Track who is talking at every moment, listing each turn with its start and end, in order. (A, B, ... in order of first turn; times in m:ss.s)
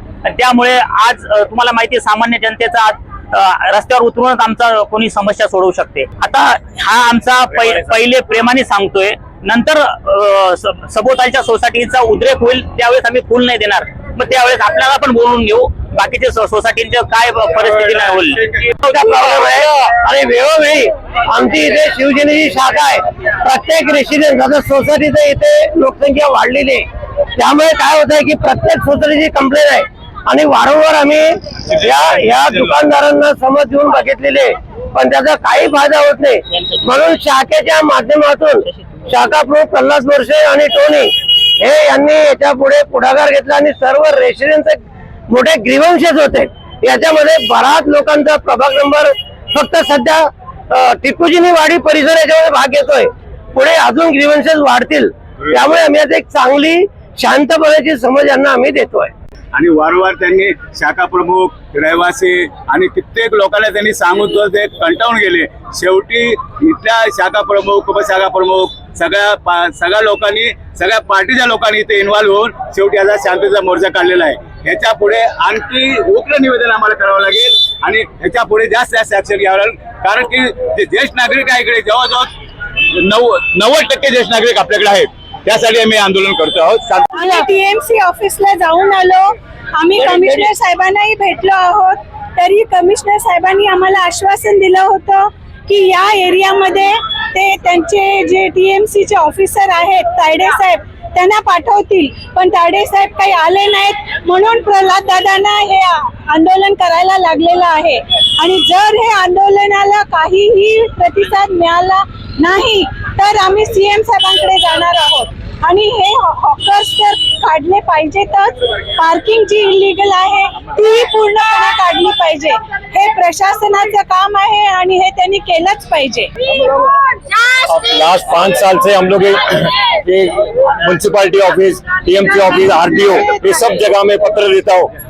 0:00.2-0:18.6 A
0:18.9-0:26.8 B
0:18.9-0:19.7 C
0:27.4-0:59.1 B
0:31.7-0:32.7 D
0:59.5-1:22.3 D
1:23.0-1:27.1 D
1:27.1-2:06.3 E
1:30.0-1:30.5 B
2:07.7-2:14.9 C